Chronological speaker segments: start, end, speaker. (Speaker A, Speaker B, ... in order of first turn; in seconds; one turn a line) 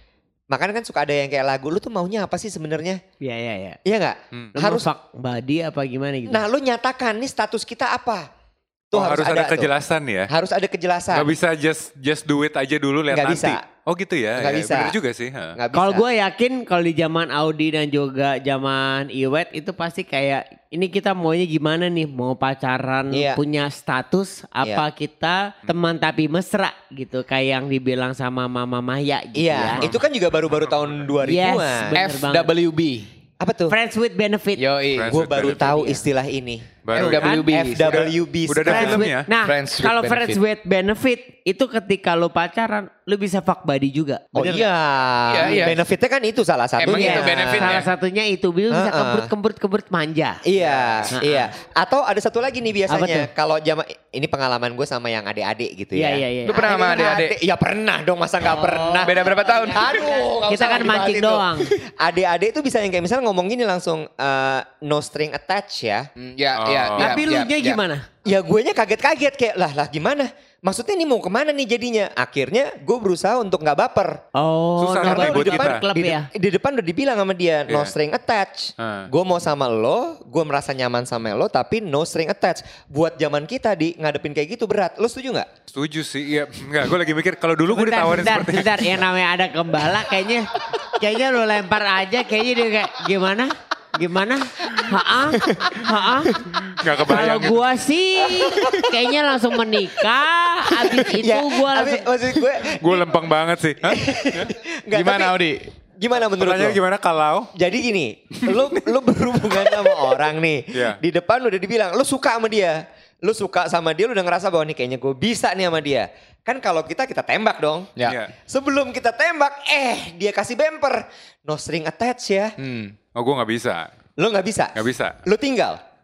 Speaker A: 0.5-3.0
Speaker B: 3.2-3.8
Speaker A: 3.8-4.9
Speaker B: 4.5-6.4
Speaker A: 6.3-8.3
Speaker A: 8.9-9.7
Speaker C: 8.9-10.3
Speaker A: 10.3-11.3
Speaker C: 11.1-15.6
Speaker A: 13.1-13.6
Speaker A: 14.3-14.9
Speaker A: 15.5-16.1
Speaker B: 15.7-29.8
Speaker A: 23.1-23.4
Speaker A: 29.3-32.0
Speaker C: 29.8-31.0
Speaker B: 31.2-32.5
Speaker D: 31.9-33.1
Speaker A: 33.4-33.7
Speaker B: 33.7-34.6
Speaker D: 34.6-35.1
Speaker C: 34.9-35.8
Speaker A: 35.1-39.1
Speaker B: 35.4-36.0
Speaker C: 36.8-37.3
Speaker D: 36.9-38.1
Speaker B: 36.9-37.9
Speaker C: 38.5-39.3
Speaker B: 38.6-44.6
Speaker D: 39.4-40.4
Speaker A: 44.3-47.9
Speaker D: 45.3-45.8
Speaker B: 45.4-45.7
Speaker D: 46.8-47.9
Speaker B: 46.9-50.4
Speaker A: 48.7-49.3
Speaker A: 50.4-66.1
Speaker B: 51.1-51.5
Speaker B: 52.9-53.3
Speaker B: 55.9-56.7
Speaker D: 56.4-57.3
Speaker B: 58.5-61.7
Speaker D: 59.0-61.3
Speaker D: 66.2-67.8
Speaker C: 66.5-67.2
Speaker B: 67.0-68.0
Speaker A: 68.2-74.2
Speaker B: 74.3-76.3
Speaker C: 74.8-75.8
Speaker A: 75.0-85.5
Speaker C: 77.7-77.9
Speaker C: 78.8-79.1
Speaker C: 85.7-89.0
Speaker B: 87.6-96.4
Speaker C: 96.7-97.6
Speaker B: 97.0-102.1
Speaker A: 98.5-98.7
Speaker A: 101.0-103.1
Speaker C: 102.7-104.5
Speaker A: 103.8-105.4
Speaker D: 104.9-105.7
Speaker A: 106.0-106.8
Speaker C: 106.3-107.5
Speaker A: 107.5-117.9
Speaker C: 108.5-108.7
Speaker C: 110.7-111.0
Speaker C: 118.0-118.3
Speaker A: 118.5-122.5
Speaker D: 122.6-122.9
Speaker C: 123.1-123.9
Speaker A: 124.2-125.8
Speaker C: 124.8-125.2